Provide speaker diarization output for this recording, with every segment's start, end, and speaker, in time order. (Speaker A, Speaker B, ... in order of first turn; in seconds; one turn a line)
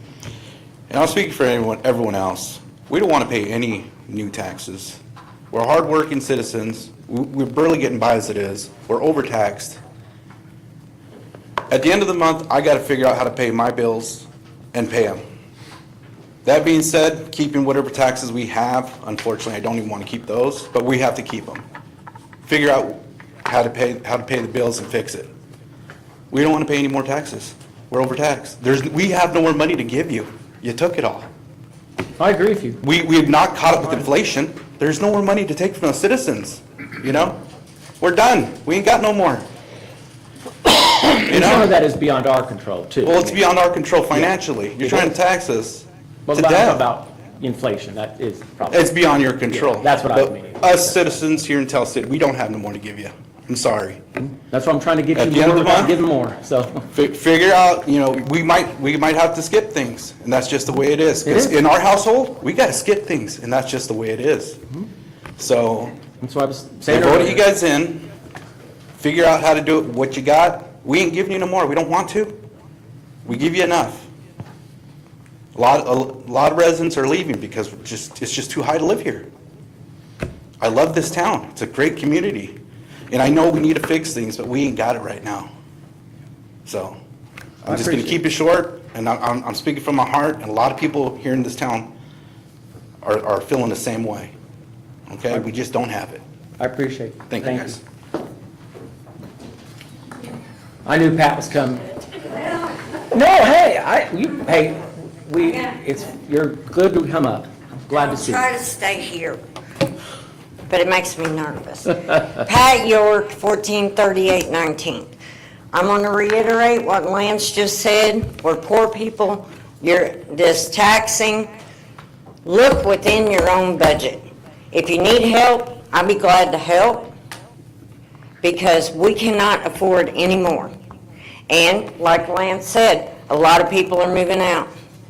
Speaker A: 0.9-5.0
Speaker A: 5.5-9.8
Speaker A: 11.7-15.2
Speaker A: 16.4-21.6
Speaker A: 22.5-25.3
Speaker A: 26.3-31.3
Speaker B: 32.2-32.8
Speaker A: 32.8-37.4
Speaker A: 38.0-39.5
Speaker B: 40.7-43.5
Speaker A: 41.3-41.7
Speaker A: 43.0-46.8
Speaker B: 44.1-45.2
Speaker B: 46.3-51.0
Speaker A: 48.7-54.0
Speaker B: 54.3-56.9
Speaker A: 55.1-56.0
Speaker A: 56.9-64.6
Speaker B: 61.2-61.6
Speaker A: 65.4-66.0
Speaker B: 66.2-67.4
Speaker A: 66.9-68.1
Speaker A: 69.0-72.4
Speaker A: 73.2-74.1
Speaker A: 75.5-79.3
Speaker A: 80.6-82.6
Speaker A: 83.1-85.5
Speaker A: 86.7-87.0
Speaker A: 87.6-91.9
Speaker B: 87.7-88.2
Speaker A: 93.0-94.3
Speaker A: 95.1-96.2
Speaker B: 96.6-97.8
Speaker A: 97.3-97.8
Speaker B: 100.8-101.9
Speaker B: 103.1-108.5
Speaker C: 108.0-109.4
Speaker C: 110.7-115.1
Speaker C: 115.7-121.5
Speaker C: 122.5-127.1
Speaker C: 128.4-130.7
Speaker C: 131.5-134.7